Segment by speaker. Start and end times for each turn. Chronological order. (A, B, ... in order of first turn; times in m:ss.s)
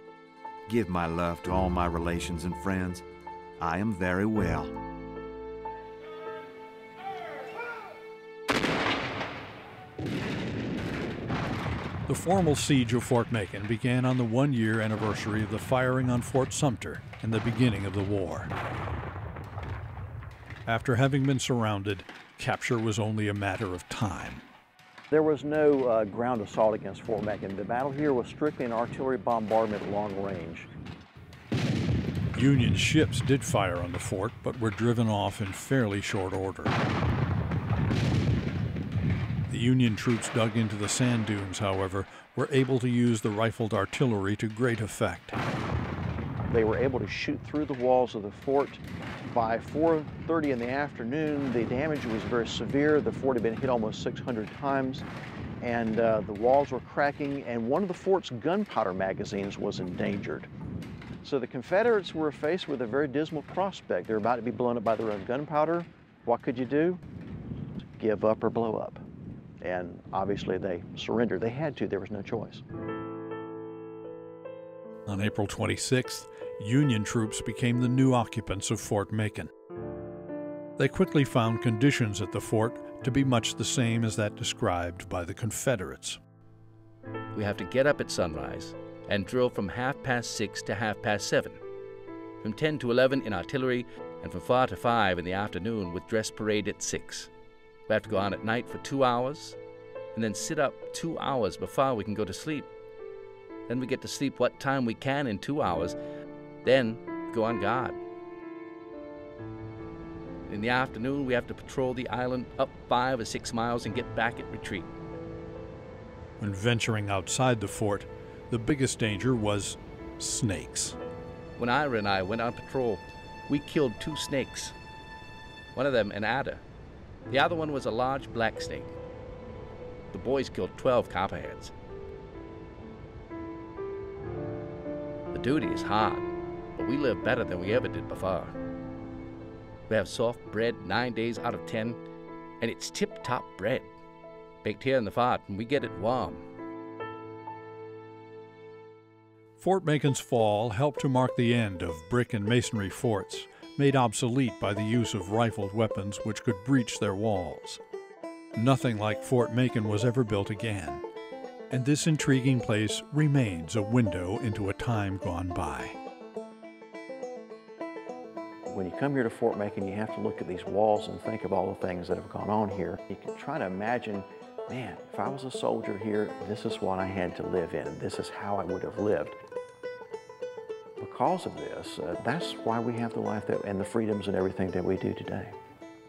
0:00.7-0:03.0 A
0:03.6-0:04.8 A
0:12.1-0:18.5 B
0:20.7-0:24.4 B
0:25.1-0:30.7 C
0:32.3-0:36.8 B
0:39.5-0:45.4 B
0:46.5-0:55.0 C
0:55.6-1:00.5 C
1:01.2-1:07.0 C
1:08.0-1:09.0 C
1:09.6-1:12.6 C
1:15.1-1:19.5 B
1:20.8-1:26.2 B
1:27.3-1:31.6 D
1:32.4-1:37.3 D
1:37.9-1:39.6 D
1:40.1-1:42.7 D
1:43.7-1:46.0 D
1:46.6-1:48.0 D
1:50.5-1:54.9 D
1:56.4-2:01.0 B
2:01.6-2:04.7 D
2:05.8-2:06.6 D
2:07.3-2:08.9 D
2:10.1-2:11.7 D
2:15.3-2:18.6 D
2:19.9-2:22.0 D
2:22.6-2:23.9 D
2:24.6-2:26.4 D
2:29.6-2:37.8 B
2:38.6-2:41.0 B
2:41.7-2:46.0 B
2:48.7-2:59.4 C
3:01.0-3:05.5 C